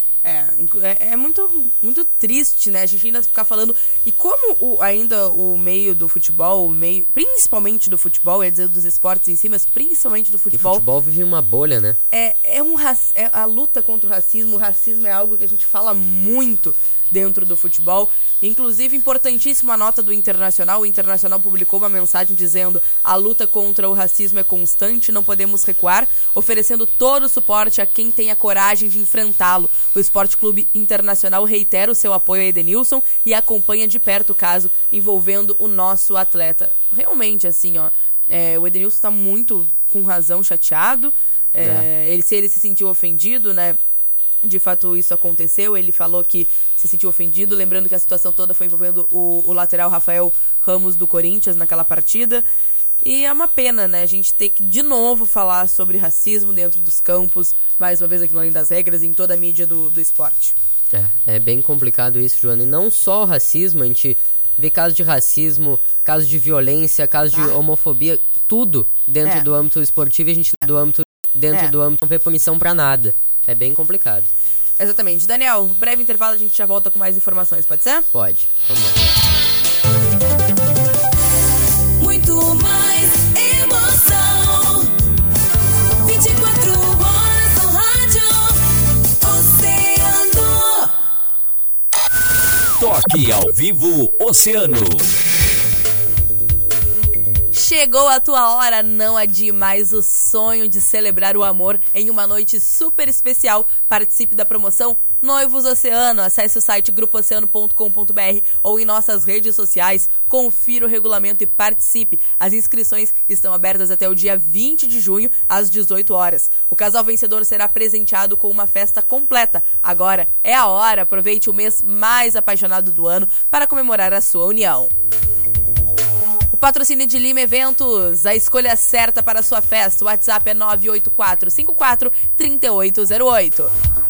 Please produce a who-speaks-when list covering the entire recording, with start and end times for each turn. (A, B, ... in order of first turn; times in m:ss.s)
0:00.2-0:10.8 A
0:10.5-0:12.0 B
0:12.1-0:43.8 A
0:41.6-0:41.8 B
0:44.4-0:52.4 A
0:53.0-1:00.5 A
1:00.9-1:14.3 B
1:14.8-1:18.1 A
1:18.1-1:19.0 B
1:22.0-1:24.9 C
1:26.0-1:28.6 C
1:29.2-1:30.9 C
1:32.8-1:35.1 D
1:37.5-2:04.9 A
2:06.5-2:13.7 A